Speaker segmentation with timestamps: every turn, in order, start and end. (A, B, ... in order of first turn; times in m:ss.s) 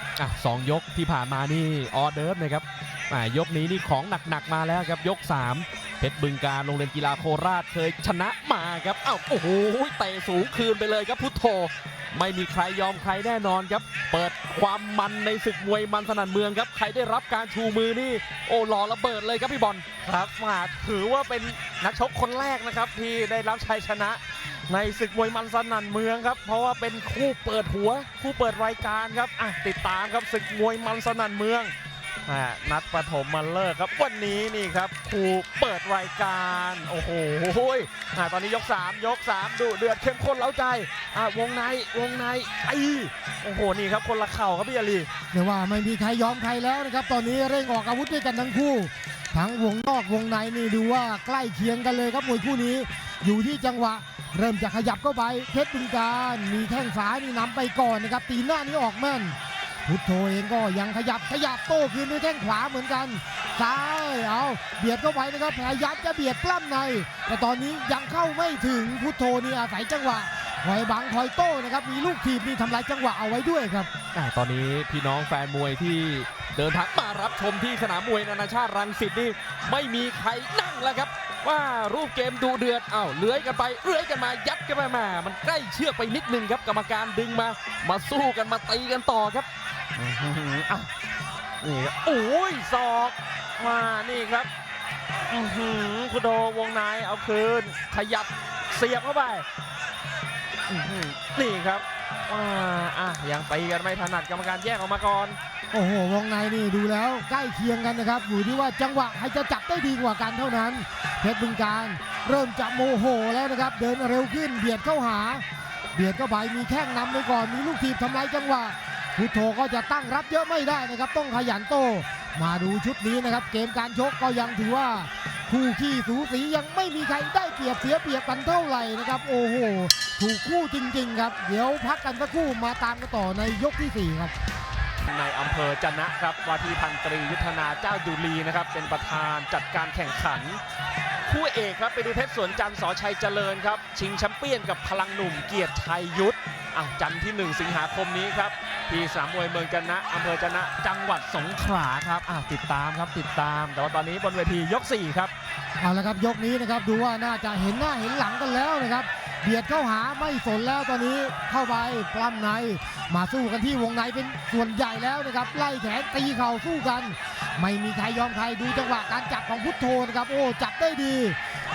0:00.2-0:19.8 A
0:20.0-0:31.7 B
0:32.2-0:45.1 B
0:45.3-1:13.9 C
1:14.1-1:29.5 A
1:30.0-1:30.9 B
1:31.6-1:34.5 B
1:35.3-1:39.4 B
1:40.7-1:45.4 B
1:45.7-1:55.4 C
1:55.9-2:14.3 C
2:15.1-2:20.6 B
2:21.2-2:35.3 B
2:35.8-2:51.4 C